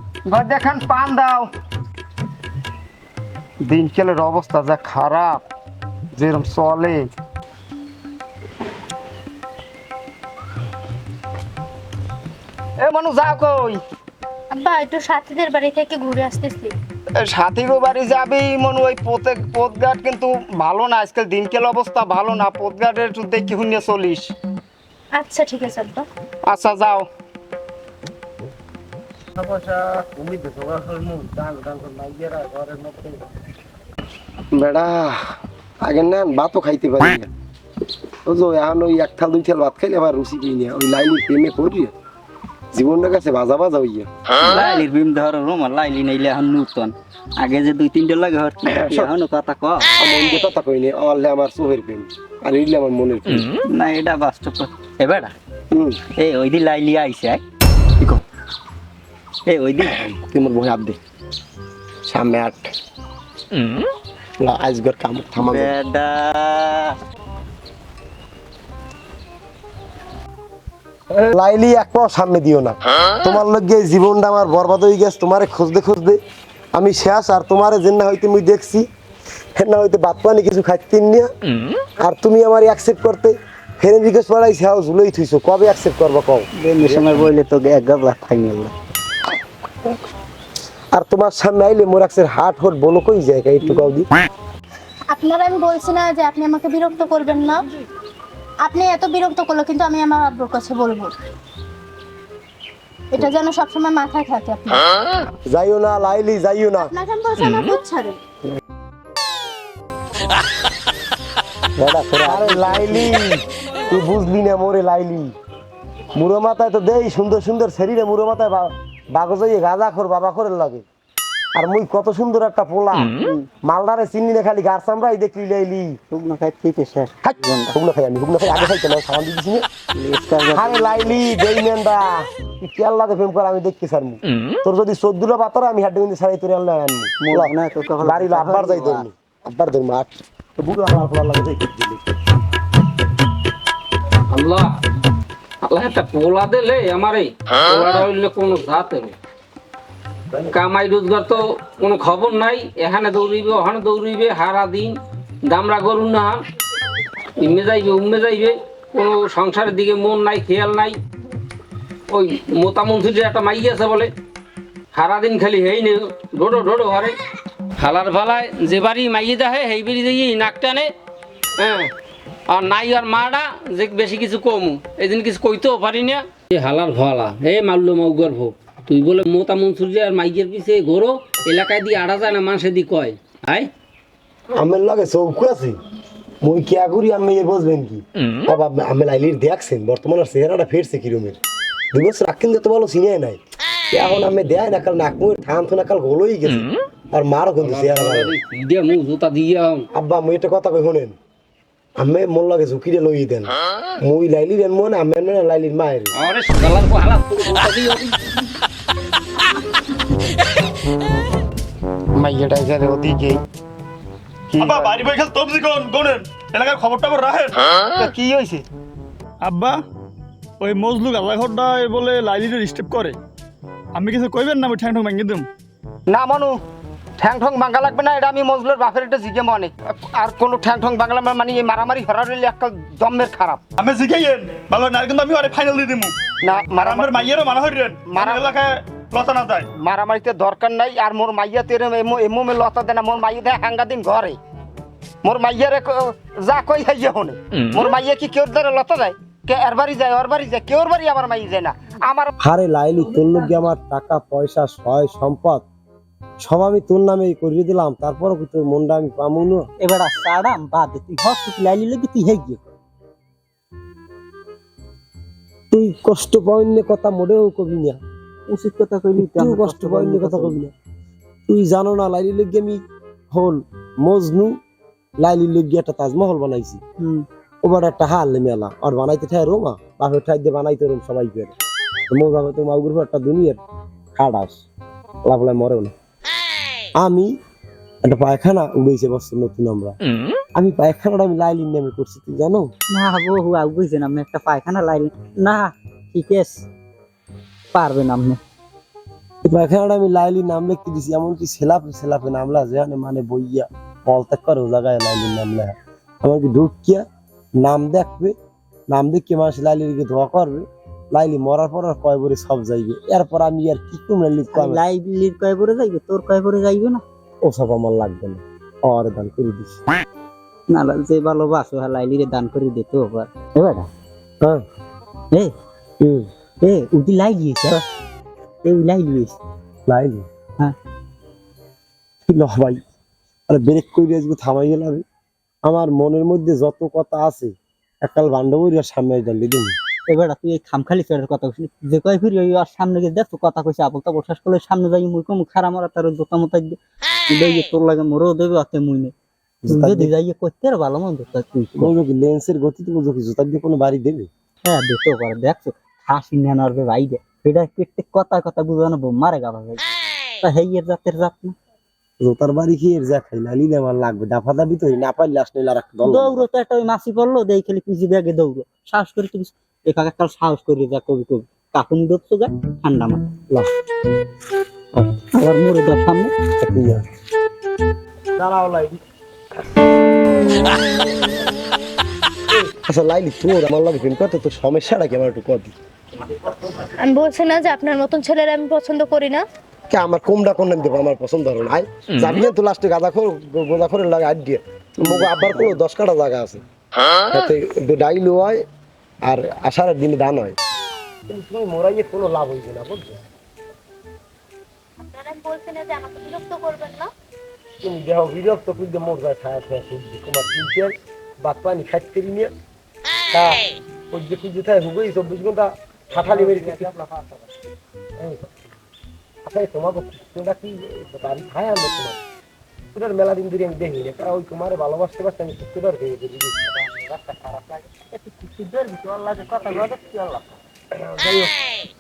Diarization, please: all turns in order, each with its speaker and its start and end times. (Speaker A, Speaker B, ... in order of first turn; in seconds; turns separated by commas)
Speaker A: 0.3-1.5, Speaker A: 3.6-5.4, Speaker A: 6.2-7.1, Speaker A: 12.8-13.8, Speaker B: 14.5-16.7, Speaker A: 17.2-24.3, Speaker B: 25.2-26.1, Speaker A: 26.5-27.1, Speaker C: 29.4-33.2, Speaker C: 34.5-35.2, Speaker C: 35.8-37.3, Speaker C: 38.3-41.9, Speaker C: 42.7-44.1, Speaker D: 44.4-49.9, Speaker C: 48.7-49.1, Speaker C: 50.0-53.5, Speaker D: 53.7-55.3, Speaker C: 55.7-56.0, Speaker D: 56.2-57.4, Speaker D: 59.5-60.0, Speaker C: 59.9-61.0, Speaker C: 62.1-62.7, Speaker C: 64.4-65.7, Speaker D: 65.4-67.0, Speaker C: 71.2-76.2, Speaker C: 76.7-78.9, Speaker C: 79.6-81.3, Speaker C: 82.0-87.2, Speaker D: 86.6-88.7, Speaker C: 90.9-94.1, Speaker B: 95.1-97.6, Speaker B: 98.6-101.1, Speaker B: 103.1-104.9, Speaker C: 105.5-106.9, Speaker B: 106.8-108.2, Speaker C: 111.8-115.3, Speaker D: 112.1-113.1, Speaker C: 116.2-120.8, Speaker C: 121.5-126.0, Speaker D: 123.2-123.5, Speaker D: 126.1-127.7, Speaker C: 127.7-129.7, Speaker D: 129.9-131.2, Speaker C: 130.5-142.1, Speaker D: 137.2-139.1, Speaker E: 144.3-144.7, Speaker E: 145.7-149.2, Speaker E: 150.5-154.9, Speaker E: 155.5-156.4, Speaker E: 157.4-161.0, Speaker E: 162.1-164.1, Speaker E: 164.9-167.2, Speaker E: 167.8-170.9, Speaker E: 171.6-171.9, Speaker E: 172.5-183.7, Speaker C: 184.6-185.8, Speaker C: 186.4-191.4, Speaker C: 191.9-193.4, Speaker C: 193.9-198.3, Speaker E: 197.6-199.9, Speaker C: 199.9-201.2, Speaker C: 202.0-206.1, Speaker E: 206.2-208.2, Speaker A: 212.2-213.4, Speaker A: 214.5-214.9, Speaker F: 214.6-217.6, Speaker A: 218.0-218.7, Speaker F: 219.4-219.8, Speaker F: 220.6-223.2, Speaker F: 223.9-225.5, Speaker A: 226.1-226.6, Speaker A: 227.2-233.6, Speaker F: 233.8-236.2, Speaker A: 236.4-237.2, Speaker F: 236.8-239.7, Speaker A: 238.1-238.5, Speaker A: 239.8-244.4, Speaker A: 245.2-252.3, Speaker C: 252.4-255.7, Speaker C: 256.4-259.7, Speaker D: 259.8-262.7, Speaker C: 265.7-268.0, Speaker D: 268.5-270.6, Speaker C: 269.2-270.7, Speaker C: 271.5-274.6, Speaker C: 275.2-276.8, Speaker D: 277.0-277.3, Speaker C: 277.6-281.6, Speaker C: 282.1-283.6, Speaker C: 284.1-284.6, Speaker C: 285.2-285.9, Speaker C: 287.0-287.3, Speaker C: 288.0-290.0, Speaker C: 290.6-292.7, Speaker D: 292.9-296.7, Speaker D: 297.7-298.4, Speaker C: 299.4-307.1, Speaker C: 307.6-308.4, Speaker C: 308.9-314.8, Speaker D: 314.5-317.0, Speaker C: 317.4-319.8, Speaker D: 320.7-323.9, Speaker C: 326.0-326.3, Speaker D: 326.6-327.8, Speaker D: 328.6-329.4, Speaker C: 329.9-330.3, Speaker C: 332.3-332.8, Speaker C: 333.5-335.1, Speaker C: 335.6-339.8, Speaker D: 340.1-346.8, Speaker D: 347.3-349.1, Speaker C: 349.6-350.1, Speaker D: 349.7-351.9, Speaker C: 351.8-354.3, Speaker D: 354.7-359.8, Speaker D: 360.4-361.6, Speaker C: 362.2-366.4, Speaker D: 366.0-373.2, Speaker D: 375.3-376.3, Speaker C: 376.6-377.0, Speaker C: 378.4-379.0, Speaker C: 382.5-385.8, Speaker B: 386.8-389.4, Speaker C: 389.9-396.6, Speaker D: 395.0-395.7, Speaker C: 397.3-398.6, Speaker C: 399.2-400.6, Speaker C: 401.3-403.2, Speaker B: 405.0-407.1, Speaker C: 407.8-412.5, Speaker C: 413.3-417.5, Speaker C: 418.2-418.6, Speaker C: 419.4-422.2, Speaker C: 422.9-431.6